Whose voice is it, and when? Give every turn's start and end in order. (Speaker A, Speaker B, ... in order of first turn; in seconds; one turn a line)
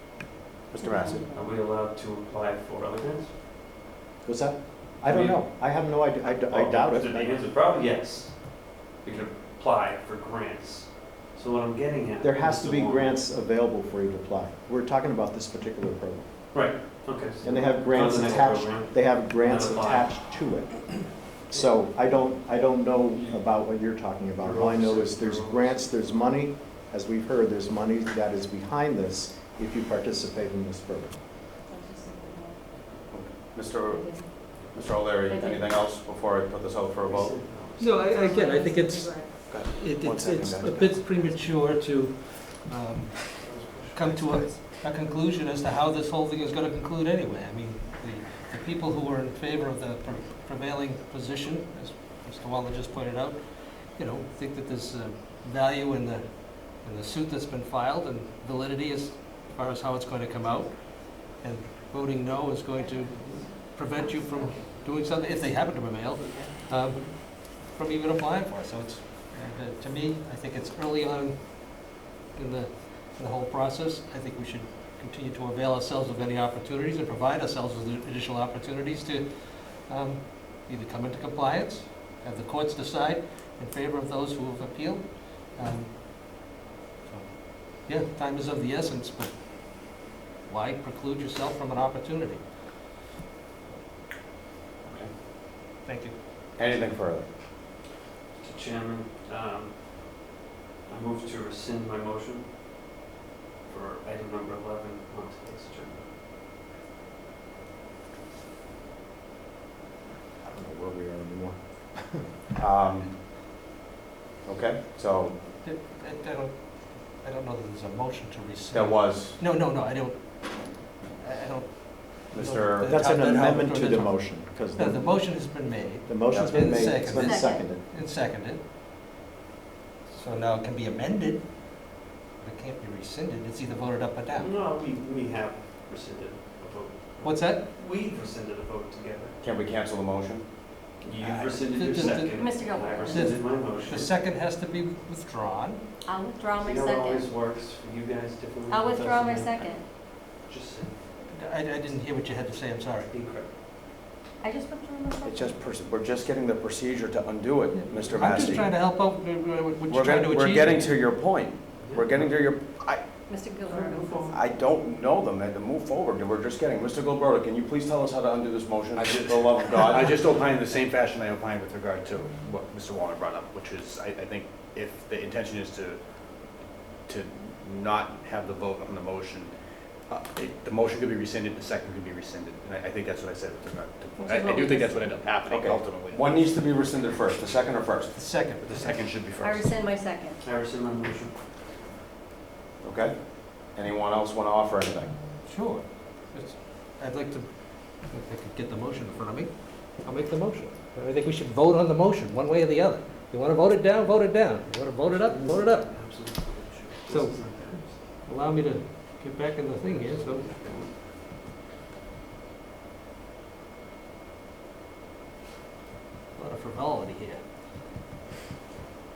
Speaker A: 0.7-1.2
Speaker B: 0.8-1.5
Speaker C: 1.3-3.3
Speaker D: 4.2-7.3
Speaker C: 5.0-13.3
Speaker D: 12.2-16.6
Speaker C: 16.5-20.2
Speaker D: 17.4-31.2
Speaker C: 21.5-22.1
Speaker C: 23.1-23.4
Speaker C: 24.4-26.2
Speaker B: 31.7-32.6
Speaker A: 33.1-37.4
Speaker B: 33.9-34.3
Speaker B: 35.2-35.7
Speaker C: 37.1-38.1
Speaker E: 37.8-86.5
Speaker B: 38.1-39.5
Speaker A: 39.5-41.4
Speaker C: 43.4-44.5
Speaker B: 62.8-66.4
Speaker E: 87.1-92.5
Speaker A: 94.8-95.1
Speaker E: 95.8-96.2
Speaker A: 96.6-97.3
Speaker C: 98.4-102.5
Speaker C: 103.7-106.1
Speaker D: 110.4-112.4
Speaker A: 112.6-113.2
Speaker A: 114.5-115.4
Speaker E: 115.6-128.6
Speaker A: 118.7-119.4
Speaker A: 122.3-122.9
Speaker D: 122.8-125.2
Speaker D: 126.1-127.8
Speaker A: 126.3-126.6
Speaker B: 127.2-127.7
Speaker E: 130.1-134.5
Speaker C: 134.4-139.4
Speaker E: 137.2-137.7
Speaker A: 139.4-140.5
Speaker C: 141.0-144.2
Speaker E: 141.3-142.3
Speaker B: 142.3-143.3
Speaker E: 143.1-145.9
Speaker B: 146.0-147.3
Speaker C: 146.5-151.1
Speaker B: 148.7-149.9
Speaker E: 151.3-153.1
Speaker C: 153.1-153.5
Speaker B: 154.4-155.6
Speaker A: 155.2-158.7
Speaker E: 157.7-161.0
Speaker A: 159.9-163.1
Speaker C: 161.8-162.2
Speaker B: 163.3-164.4
Speaker C: 163.6-164.6
Speaker A: 164.3-170.2
Speaker F: 168.9-179.5
Speaker F: 180.1-186.6
Speaker B: 184.2-185.1
Speaker A: 185.4-188.1
Speaker E: 188.1-189.0
Speaker F: 188.6-189.8
Speaker B: 189.4-190.4
Speaker C: 190.4-191.5
Speaker A: 192.8-195.1
Speaker E: 195.5-205.9
Speaker C: 205.1-208.1
Speaker E: 207.1-210.5
Speaker C: 209.8-211.1
Speaker E: 216.3-217.6